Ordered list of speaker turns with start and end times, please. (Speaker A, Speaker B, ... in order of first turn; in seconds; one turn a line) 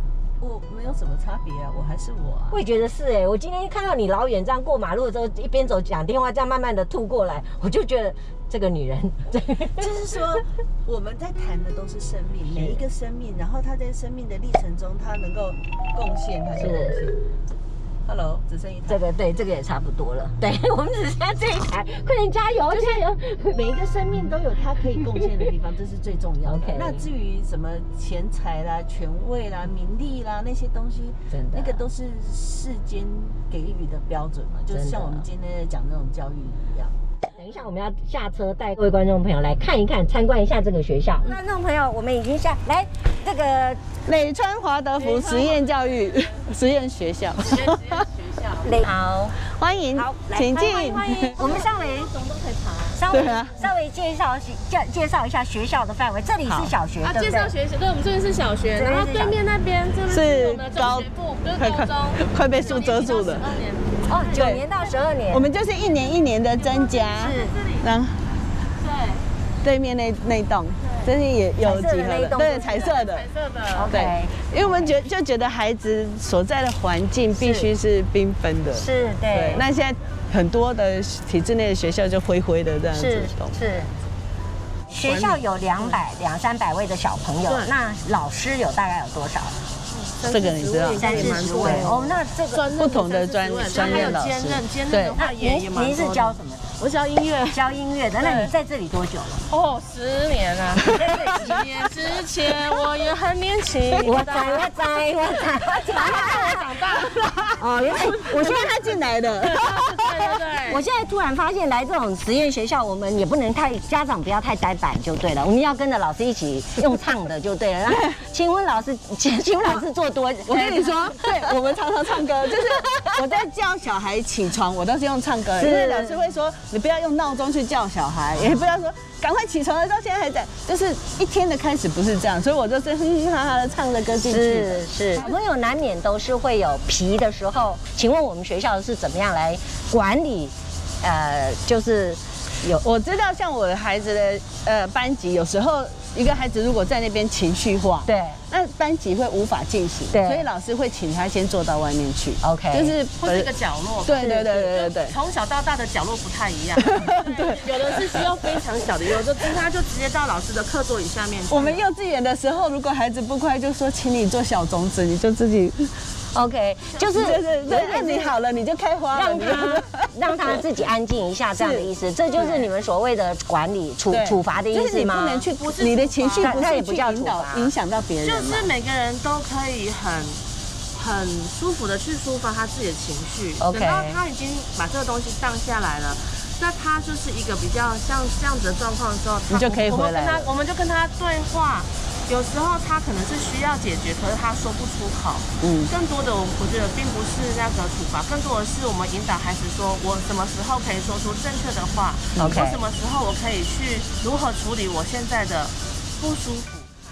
Speaker A: 0.4-2.6
Speaker B: 2.5-9.9
Speaker A: 9.7-17.3
Speaker B: 12.5-12.8
Speaker B: 16.6-17.0
Speaker A: 18.1-19.0
Speaker B: 18.9-23.6
Speaker A: 22.7-36.9
Speaker B: 26.4-27.0
Speaker B: 31.3-31.8
Speaker B: 34.7-35.2
Speaker B: 37.3-43.9
Speaker A: 44.0-48.0
Speaker C: 45.0-46.5
Speaker C: 47.4-48.9
Speaker B: 48.6-49.4
Speaker A: 49.4-51.5
Speaker B: 49.9-52.1
Speaker C: 50.6-53.4
Speaker B: 52.9-57.5
Speaker A: 53.1-53.6
Speaker A: 56.4-56.7
Speaker C: 57.0-65.0
Speaker B: 58.7-59.4
Speaker A: 60.1-63.6
Speaker B: 64.1-65.5
Speaker A: 64.3-64.6
Speaker A: 65.3-68.3
Speaker C: 65.6-67.9
Speaker B: 67.2-67.6
Speaker C: 68.8-69.2
Speaker A: 69.6-73.3
Speaker C: 70.8-71.1
Speaker B: 71.6-72.9
Speaker C: 72.4-73.9
Speaker B: 73.7-74.9
Speaker A: 73.9-83.6
Speaker B: 77.3-77.7
Speaker B: 78.7-79.6
Speaker B: 82.9-83.9
Speaker B: 84.9-89.6
Speaker A: 85.0-85.4
Speaker C: 89.9-97.6
Speaker A: 90.3-91.9
Speaker B: 91.0-92.7
Speaker A: 92.8-95.2
Speaker B: 93.7-94.2
Speaker B: 95.2-96.7
Speaker B: 97.5-99.4
Speaker C: 98.2-98.5
Speaker C: 99.5-104.7
Speaker A: 100.8-101.5
Speaker B: 100.9-101.7
Speaker B: 104.0-106.7
Speaker C: 105.5-107.5
Speaker A: 107.0-110.3
Speaker B: 107.6-108.7
Speaker C: 109.4-110.8
Speaker B: 110.7-123.5
Speaker A: 117.9-118.2
Speaker A: 120.5-135.3
Speaker B: 125.6-126.2
Speaker B: 128.3-128.7
Speaker B: 134.3-142.8
Speaker A: 142.8-153.5
Speaker B: 148.1-148.4
Speaker B: 150.1-150.5
Speaker B: 152.4-152.9
Speaker C: 153.2-161.8
Speaker A: 154.0-155.2
Speaker B: 154.2-154.7
Speaker A: 156.8-158.6
Speaker A: 161.5-165.9
Speaker B: 166.3-168.3
Speaker C: 166.9-168.0
Speaker A: 167.1-170.6
Speaker B: 169.1-175.5
Speaker A: 171.5-172.7
Speaker A: 174.1-178.7
Speaker C: 175.6-176.6
Speaker B: 176.4-177.7
Speaker C: 178.2-206.9
Speaker B: 183.6-184.2
Speaker A: 189.5-190.5
Speaker A: 195.6-195.9
Speaker B: 202.3-202.8